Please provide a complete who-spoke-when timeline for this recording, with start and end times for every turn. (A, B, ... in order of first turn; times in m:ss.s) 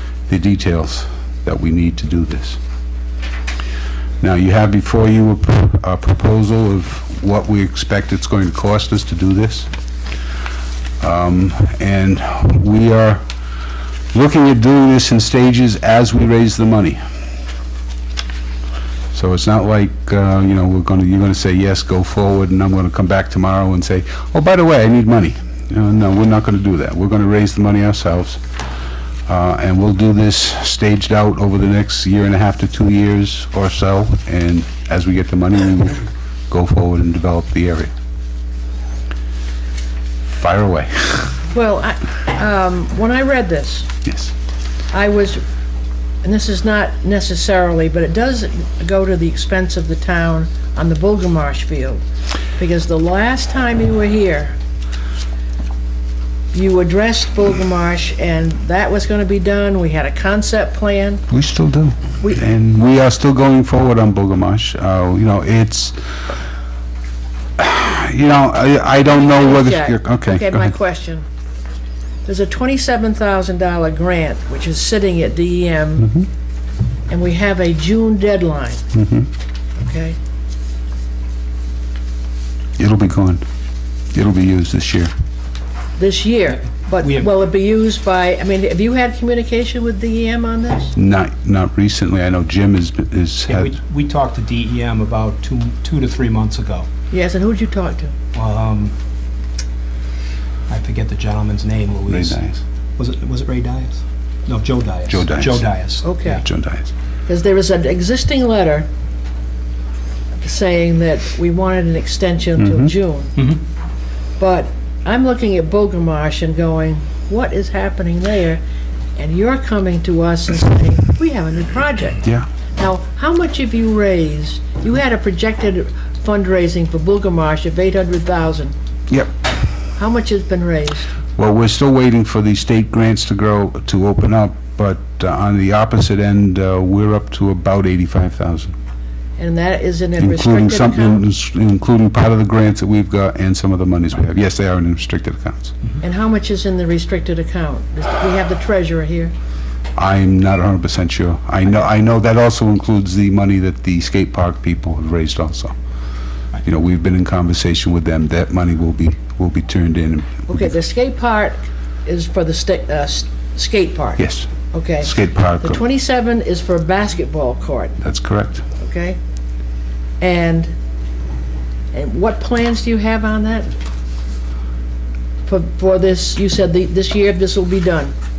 0:00.3-0:02.6 A
0:04.2-0:09.7 A
0:11.0-0:13.2 A
0:14.1-0:17.0 A
0:19.1-0:28.4 A
0:29.3-0:37.9 A
0:40.3-0:41.4 A
0:41.5-0:43.9 B
0:44.0-0:44.3 A
0:44.9-0:45.4 B
0:46.2-0:52.0 B
0:52.6-0:54.6 B
0:56.5-1:01.2 B
1:01.3-1:06.0 A
1:07.6-1:10.7 A
1:09.0-1:11.2 B
1:12.2-1:16.1 B
1:17.1-1:18.8 B
1:18.9-1:19.3 A
1:19.8-1:20.2 B
1:22.8-1:23.4 A
1:24.1-1:25.1 A
1:26.0-1:30.9 B
1:27.0-1:27.3 C
1:30.9-1:33.7 A
1:33.5-1:36.9 C
1:37.1-1:38.1 B
1:38.3-1:38.9 C
1:40.7-1:42.4 C
1:42.1-1:42.6 A
1:43.0-1:46.4 C
1:45.1-1:45.6 A
1:46.0-1:46.4 B
1:46.3-1:46.9 A
1:47.3-1:48.9 B
1:50.4-1:53.4 B
1:52.6-1:52.9 A
1:54.4-1:58.6 B
1:59.2-2:02.2 B
2:02.8-2:08.7 B
2:10.0-2:11.1 B
2:11.4-2:18.7 A
2:19.4-2:21.2 B
2:20.2-2:25.7 A
2:26.0-2:29.3 B
2:30.0-2:35.7 A
2:36.6-2:40.7 A
2:40.5-2:48.0 B
2:44.2-2:45.8 A
2:48.0-2:48.6 A
2:48.8-2:49.2 B
2:50.2-2:50.7 B
2:51.9-2:53.7 B
2:55.4-2:58.1 B